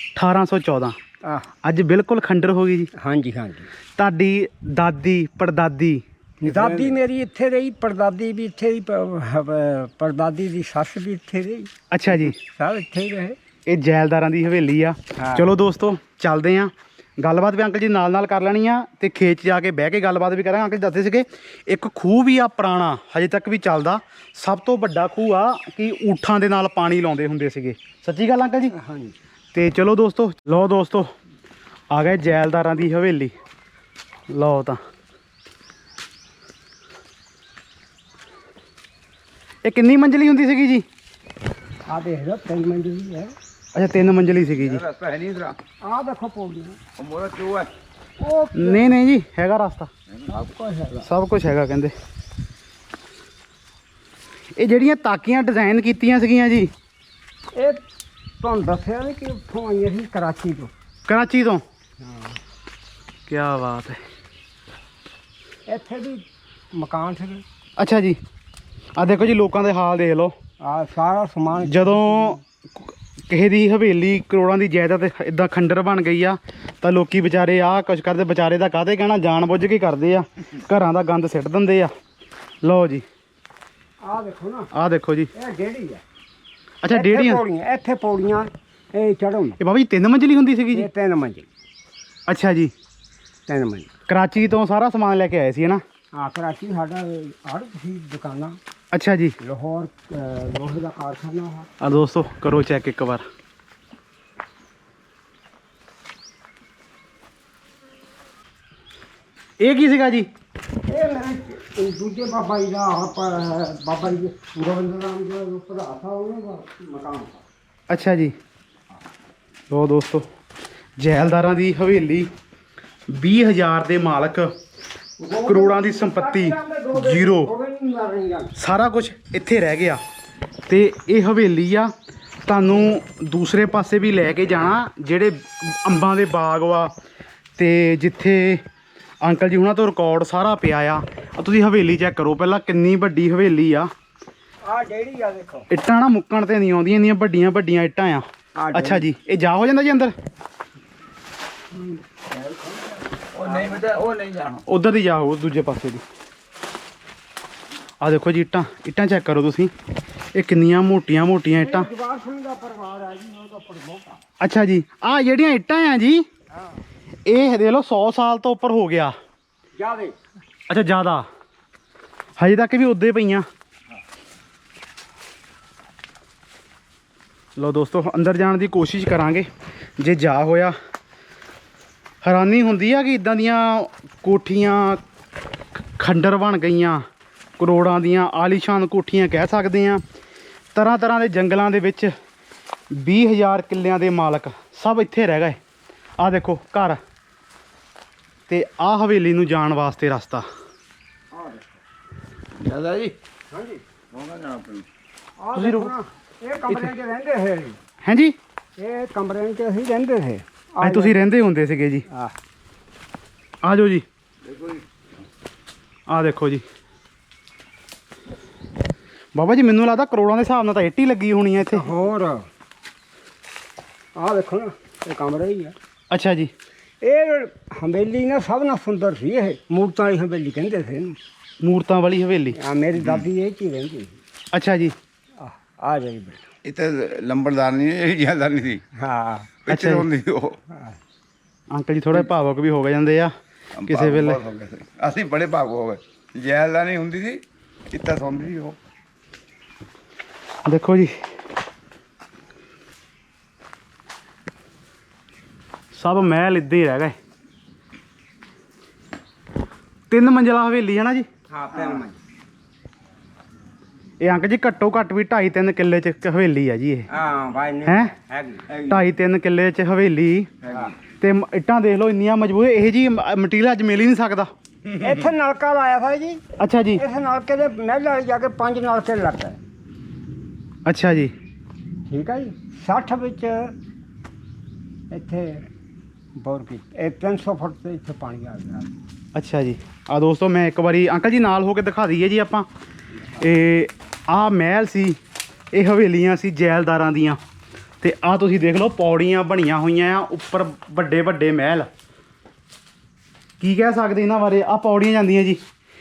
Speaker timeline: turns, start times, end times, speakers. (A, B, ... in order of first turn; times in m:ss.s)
0:00.2-0:01.0 A
0:01.2-0:01.5 B
0:01.6-0:02.9 A
0:03.0-0:03.7 B
0:04.0-0:06.0 A
0:06.4-0:13.4 B
0:06.4-0:06.9 C
0:11.9-0:12.4 A
0:13.7-0:28.7 A
0:15.2-0:15.5 B
0:28.7-0:29.2 B
0:29.5-0:31.1 A
0:31.9-0:33.3 A
0:34.3-0:34.8 A
0:39.6-0:40.8 A
0:41.9-0:43.4 B
0:43.8-0:44.9 A
0:44.6-0:45.6 C
0:45.8-0:46.8 B
0:47.0-0:47.7 C
0:48.2-0:48.9 B
0:48.6-0:49.9 A
0:50.3-0:51.0 B
0:51.0-0:51.9 A
0:54.6-0:56.7 A
0:57.6-0:57.8 B
0:58.4-1:00.7 B
1:01.1-1:01.6 A
1:02.0-1:02.4 B
1:03.3-1:04.0 A
1:05.7-1:07.4 B
1:07.8-1:08.2 A
1:09.0-1:10.3 A
1:10.6-1:12.4 B
1:11.6-1:21.9 A
1:22.6-1:23.0 A
1:24.0-1:24.7 B
1:24.7-1:25.3 A
1:25.3-1:26.0 B
1:26.8-1:27.4 A
1:26.9-1:29.6 B
1:29.6-1:30.9 A
1:30.7-1:31.5 B
1:32.3-1:32.7 A
1:33.5-1:33.9 B
1:34.1-1:35.8 A
1:36.2-1:38.6 B
1:38.9-1:39.4 A
1:39.4-1:41.7 B
1:41.8-1:43.2 A
1:49.6-1:50.3 A
1:50.9-1:57.4 B
1:57.9-1:58.3 A
1:59.7-2:00.2 A
2:01.0-2:02.3 A
2:03.1-2:04.5 A
2:05.2-2:08.5 B
2:05.4-2:07.5 A
2:08.6-2:10.0 A
2:10.7-2:11.9 A
2:12.5-2:16.9 A
2:17.6-2:18.6 A
2:19.2-2:23.9 A
2:24.6-2:25.7 B
2:25.7-2:30.1 A
2:28.6-2:29.1 B
2:31.8-2:33.8 B
2:33.3-2:34.6 C
2:34.7-2:36.0 A
2:38.0-2:39.7 A
2:40.3-2:41.9 A
2:41.5-2:44.2 B
2:44.4-2:46.2 A
2:47.3-2:49.1 A
2:49.8-2:50.2 B
2:50.7-2:51.3 A
2:52.4-2:53.4 A
2:57.6-2:59.5 A
3:00.0-3:00.8 A
3:02.2-3:05.0 A
3:05.8-3:07.0 A
3:07.6-3:10.0 A
3:10.7-3:12.1 A
3:12.9-3:15.6 A
3:16.2-3:17.0 A
3:18.5-3:20.4 A
3:21.3-3:21.6 B
3:22.6-3:23.2 C
3:23.5-3:23.8 B
3:24.1-3:24.9 C
3:25.4-3:27.8 B
3:25.6-3:25.9 A
3:28.0-3:28.4 A
3:28.8-3:31.2 B
3:30.8-3:32.1 A
3:33.6-3:34.0 A
3:34.4-3:34.8 C
3:36.1-3:36.6 A
3:39.4-3:41.9 A
3:41.6-3:42.5 B
3:44.2-3:45.8 B
3:46.1-3:46.5 A
3:47.0-3:51.2 B
3:51.6-3:52.6 A
3:52.6-3:54.2 B
3:54.5-3:55.0 A
3:55.4-3:56.5 B
3:56.6-3:58.8 C
3:59.0-3:59.5 B
3:59.7-4:00.6 C
3:59.7-4:00.1 A
4:00.7-4:01.0 B
4:01.7-4:03.3 A
4:03.8-4:08.8 C
4:03.8-4:04.4 A
4:10.7-4:11.2 A
4:15.9-4:17.2 A
4:20.1-4:21.3 A
4:21.5-4:22.2 B
4:24.2-4:27.1 A
4:27.1-4:28.8 B
4:27.8-4:28.1 A
4:28.7-4:29.0 C
4:28.9-4:30.5 A
4:30.6-4:31.0 C
4:31.2-4:34.5 A
4:34.9-4:36.4 B
4:36.6-4:37.0 A
4:37.0-4:39.6 B
4:40.9-4:41.3 A
4:42.1-4:43.8 B
4:45.1-4:45.7 B
4:46.4-4:48.9 B
4:49.4-4:52.7 A
4:53.4-4:55.2 A
4:55.7-4:57.4 A
4:58.0-5:01.9 A
5:03.6-5:05.6 A